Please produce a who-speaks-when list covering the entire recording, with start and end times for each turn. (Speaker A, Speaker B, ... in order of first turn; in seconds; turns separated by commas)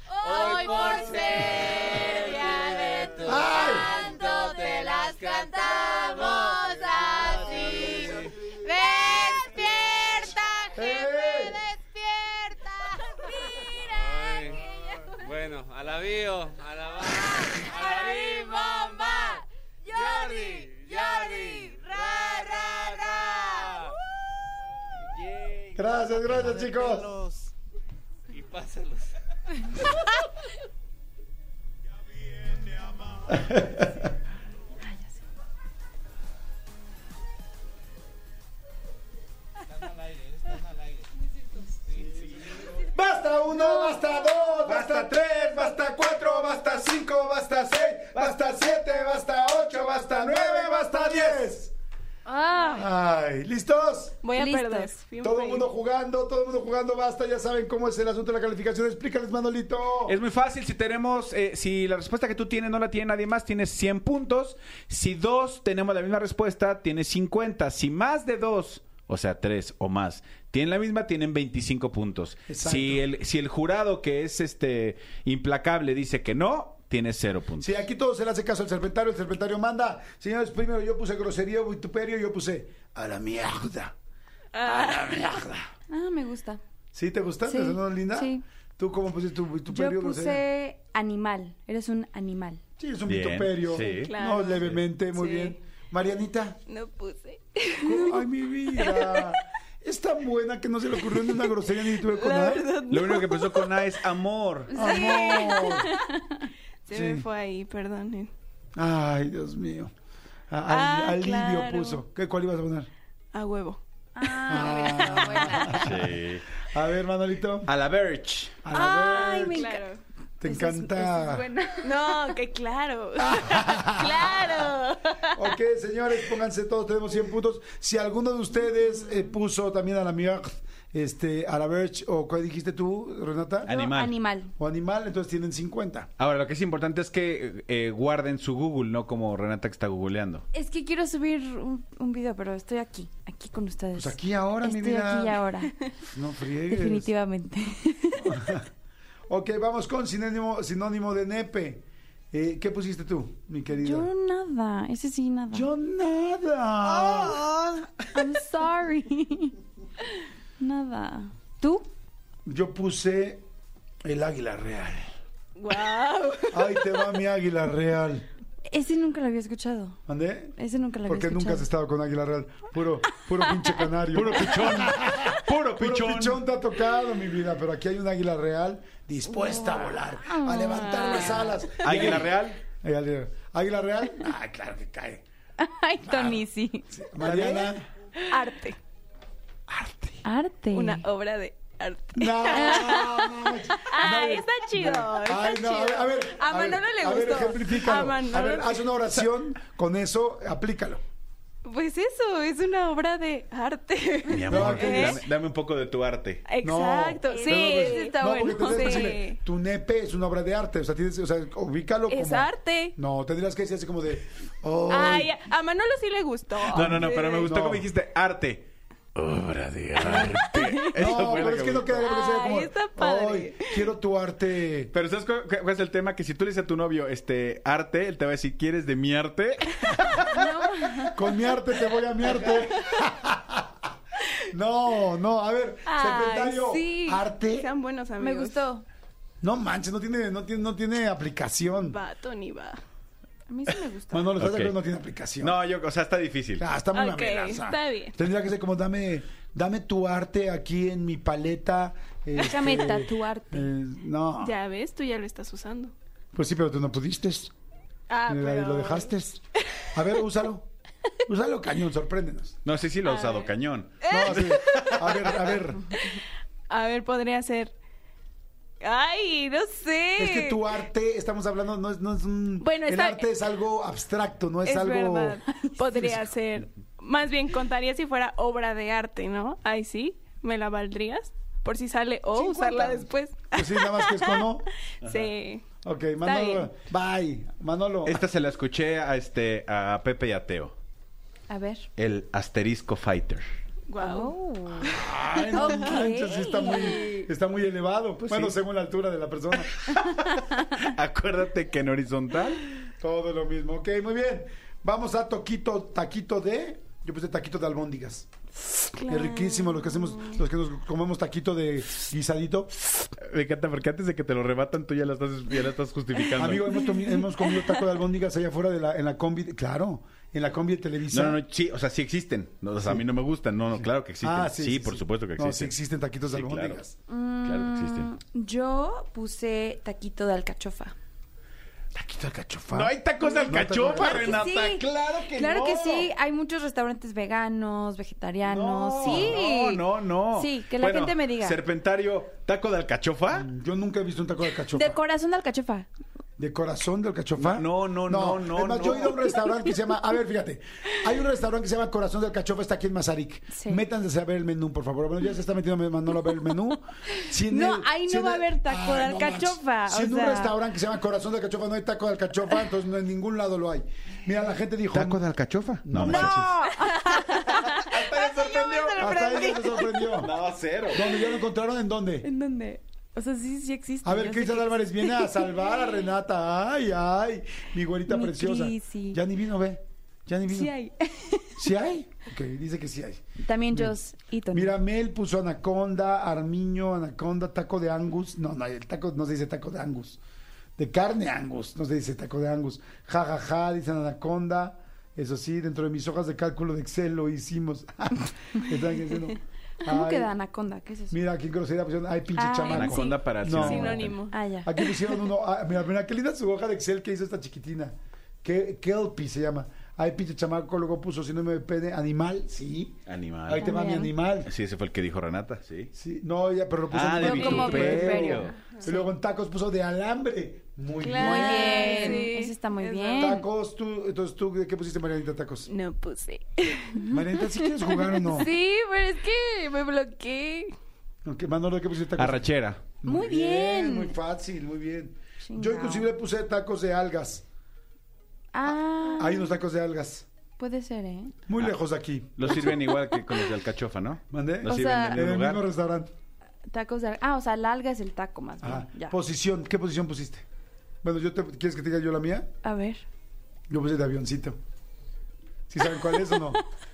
Speaker A: 0.2-10.6, Speaker B: 3.2-4.1, Speaker C: 8.7-9.0, Speaker B: 10.8-11.7, Speaker A: 13.6-24.0, Speaker A: 25.0-27.5, Speaker B: 25.8-27.1, Speaker A: 28.3-29.1, Speaker A: 32.8-33.3, Speaker B: 33.3-34.1, Speaker B: 42.8-51.7, Speaker D: 44.6-45.7, Speaker D: 49.9-51.4, Speaker E: 52.3-52.9, Speaker C: 52.4-52.8, Speaker B: 52.7-54.2, Speaker E: 54.2-55.7, Speaker C: 54.4-54.9, Speaker B: 55.2-60.2, Speaker D: 60.1-77.8, Speaker B: 72.5-73.0, Speaker B: 77.6-83.9, Speaker E: 84.5-85.3, Speaker B: 84.6-85.7, Speaker C: 85.9-86.6, Speaker B: 86.9-90.4, Speaker C: 87.4-88.4, Speaker C: 89.7-92.6, Speaker B: 92.8-96.6, Speaker D: 93.1-94.1, Speaker E: 94.0-95.6, Speaker E: 96.7-99.4, Speaker B: 97.8-102.7, Speaker E: 101.1-104.0, Speaker D: 102.9-104.9, Speaker E: 104.7-106.2, Speaker B: 104.7-105.9, Speaker C: 104.8-105.8, Speaker E: 106.8-108.3, Speaker B: 106.9-107.2, Speaker B: 108.8-109.9, Speaker B: 110.5-112.9, Speaker E: 110.7-112.0, Speaker E: 113.3-115.8, Speaker C: 114.2-115.9, Speaker B: 114.5-117.7, Speaker D: 115.7-116.5, Speaker D: 117.7-118.6, Speaker B: 118.6-119.7, Speaker C: 118.7-119.8, Speaker E: 118.9-120.0, Speaker B: 120.4-121.4, Speaker C: 120.4-122.3, Speaker E: 121.8-125.5, Speaker B: 123.2-124.7, Speaker B: 125.3-133.7, Speaker D: 133.7-134.2, Speaker C: 133.7-134.5, Speaker B: 134.6-136.1, Speaker D: 136.2-140.4, Speaker C: 140.5-145.8, Speaker B: 143.9-145.4, Speaker B: 146.0-147.1, Speaker C: 146.7-148.6, Speaker B: 148.2-148.7, Speaker B: 149.3-154.1, Speaker C: 153.7-155.7, Speaker B: 155.5-157.4, Speaker D: 156.9-157.8, Speaker C: 158.1-159.6, Speaker C: 160.6-161.9, Speaker B: 162.5-163.4, Speaker B: 164.0-165.1, Speaker E: 165.6-166.8, Speaker B: 166.5-168.2, Speaker C: 168.7-170.0, Speaker B: 170.1-170.6, Speaker C: 170.6-171.7, Speaker B: 171.1-185.2, Speaker D: 174.1-176.4, Speaker C: 179.4-181.5, Speaker E: 179.5-179.8, Speaker E: 180.9-181.8, Speaker D: 181.8-182.6, Speaker C: 185.6-186.9, Speaker B: 186.1-187.8, Speaker D: 187.2-187.8, Speaker E: 188.3-188.8, Speaker B: 189.7-190.1, Speaker C: 190.2-191.1, Speaker E: 190.7-198.9, Speaker B: 192.2-201.0, Speaker C: 192.5-193.2, Speaker E: 201.7-205.2, Speaker D: 204.3-206.4, Speaker B: 204.4-205.2, Speaker E: 206.5-209.4, Speaker B: 206.6-215.3, Speaker C: 207.3-209.2, Speaker E: 212.1-212.9, Speaker E: 214.9-217.5, Speaker B: 216.7-217.9, Speaker D: 216.7-222.1, Speaker E: 220.0-221.5, Speaker B: 220.1-220.3, Speaker B: 220.9-224.9, Speaker E: 222.0-223.9, Speaker D: 224.9-230.4, Speaker C: 230.3-231.1, Speaker B: 231.1-233.8, Speaker B: 234.5-237.7, Speaker E: 235.9-236.7, Speaker C: 236.2-237.2, Speaker E: 237.5-238.6, Speaker C: 238.2-238.8, Speaker B: 239.4-242.0, Speaker E: 241.8-242.8, Speaker C: 243.5-244.3, Speaker B: 244.1-245.6, Speaker D: 244.4-244.8, Speaker D: 245.4-246.7, Speaker B: 246.6-254.6, Speaker E: 246.9-248.2, Speaker C: 252.3-253.7, Speaker E: 254.4-255.9, Speaker B: 256.3-257.5, Speaker E: 258.1-259.1, Speaker B: 258.3-259.4, Speaker B: 259.9-260.7, Speaker B: 261.3-262.6, Speaker D: 262.6-265.3, Speaker E: 263.0-265.3, Speaker B: 264.1-265.9, Speaker E: 265.9-267.7, Speaker E: 268.8-270.6, Speaker B: 270.2-275.4, Speaker E: 272.6-273.3, Speaker E: 274.7-285.6, Speaker B: 275.9-276.2, Speaker B: 282.4-284.7, Speaker D: 285.0-285.3, Speaker B: 285.8-288.2, Speaker E: 286.2-286.7, Speaker D: 288.1-290.7, Speaker C: 291.5-291.9, Speaker D: 291.9-293.4, Speaker E: 293.9-295.0, Speaker C: 294.0-295.0, Speaker B: 294.8-299.9, Speaker C: 295.5-297.2, Speaker D: 298.2-298.6, Speaker D: 299.9-302.7, Speaker B: 303.0-308.3, Speaker C: 309.0-309.5, Speaker B: 309.1-312.7, Speaker E: 309.1-310.2, Speaker D: 313.0-316.9, Speaker B: 316.3-321.4, Speaker D: 321.1-325.7, Speaker B: 323.8-326.9, Speaker D: 326.3-326.8, Speaker C: 327.1-330.9, Speaker D: 327.4-328.1, Speaker B: 331.9-334.5, Speaker D: 332.7-336.1, Speaker C: 333.2-341.6, Speaker D: 338.5-343.5, Speaker B: 338.6-339.4, Speaker B: 343.3-345.0, Speaker C: 344.7-345.9, Speaker B: 346.4-365.2, Speaker D: 347.4-349.4, Speaker C: 353.5-353.8, Speaker C: 357.1-360.6, Speaker D: 364.9-366.5, Speaker B: 365.8-366.5, Speaker C: 366.0-370.2, Speaker D: 367.3-369.2, Speaker B: 368.9-370.4, Speaker D: 370.1-371.1, Speaker B: 370.9-372.3, Speaker C: 372.2-375.5, Speaker B: 374.0-380.7, Speaker C: 378.1-379.2, Speaker C: 380.5-381.7, Speaker B: 381.6-383.9, Speaker C: 383.4-384.7, Speaker B: 384.5-390.2, Speaker B: 390.8-400.3, Speaker C: 399.9-401.2, Speaker B: 401.1-414.5, Speaker C: 402.3-403.2, Speaker D: 402.7-404.2, Speaker E: 402.9-404.4, Speaker C: 404.3-404.9, Speaker D: 413.1-413.7, Speaker C: 413.6-414.1, Speaker D: 414.4-415.9, Speaker B: 415.9-422.3, Speaker D: 416.9-418.5, Speaker C: 417.2-419.1, Speaker E: 417.3-418.9, Speaker E: 421.0-423.3, Speaker C: 421.1-423.4, Speaker B: 423.1-425.7, Speaker E: 425.7-430.7, Speaker B: 427.1-428.5, Speaker B: 431.2-432.5, Speaker D: 432.1-432.8, Speaker B: 433.0-437.4, Speaker C: 433.0-434.2, Speaker C: 435.4-436.1, Speaker C: 438.5-439.5, Speaker B: 438.7-440.2, Speaker C: 440.6-441.4, Speaker B: 441.5-442.7, Speaker D: 442.4-445.6, Speaker C: 442.5-443.5, Speaker B: 444.3-446.1, Speaker C: 444.6-445.2, Speaker C: 446.7-449.1, Speaker B: 448.6-450.4, Speaker B: 451.0-452.5, Speaker C: 452.6-453.1, Speaker B: 453.7-454.6, Speaker B: 455.7-456.6